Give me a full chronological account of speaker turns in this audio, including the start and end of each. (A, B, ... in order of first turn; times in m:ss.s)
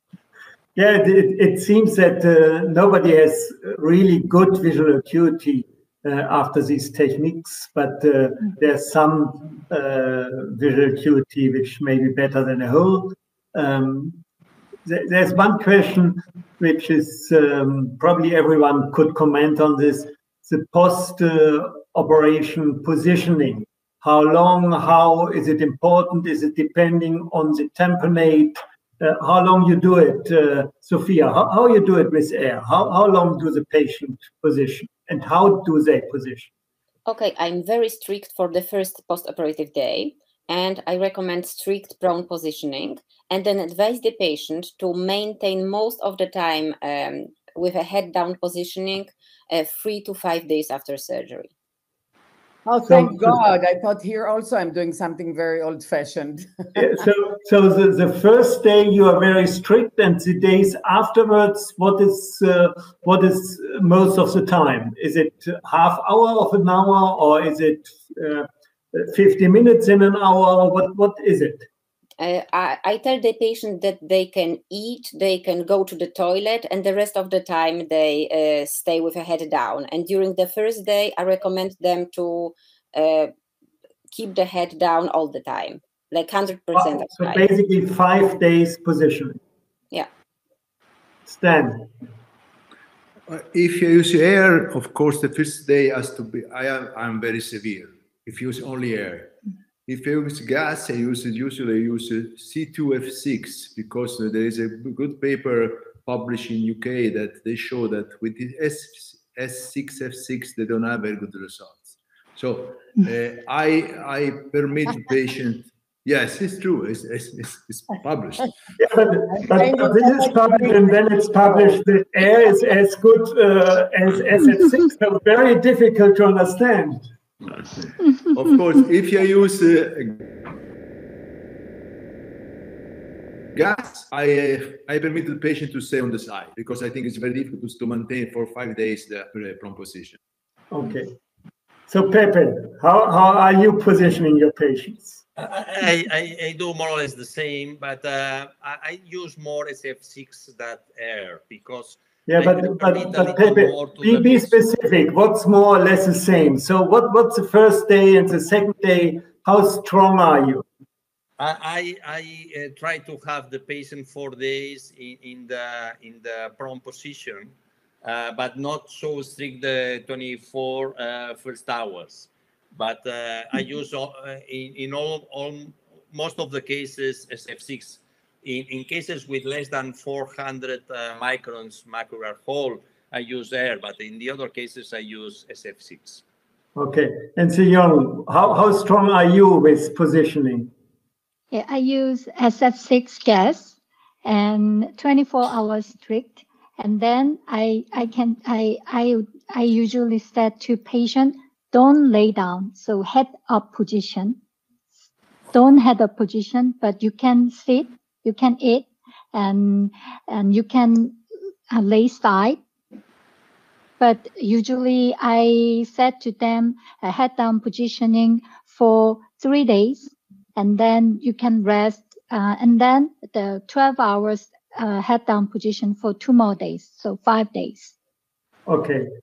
0:00.8-0:14.2 A
0:14.8-0:36.5 A
0:37.0-0:51.5 B
0:52.6-0:56.5 C
0:52.9-0:53.4 A
0:56.7-1:11.7 A
1:12.2-1:23.3 B
1:24.1-1:27.5 B
1:26.8-1:29.4 A
1:31.3-1:31.9 A
1:33.3-1:58.5 D
1:58.8-2:07.1 A
1:59.4-2:01.8 C
2:07.6-2:10.6 D
2:13.5-2:20.2 D
2:20.7-2:21.2 A
2:21.9-2:25.2 A
2:25.4-2:34.6 E
2:32.3-2:40.6 A
2:41.4-3:06.2 E
3:06.8-3:10.7 A
3:11.5-3:24.4 F
3:25.5-3:31.2 F
3:31.7-3:32.6 F
3:34.0-3:47.9 F
3:48.7-3:49.1 A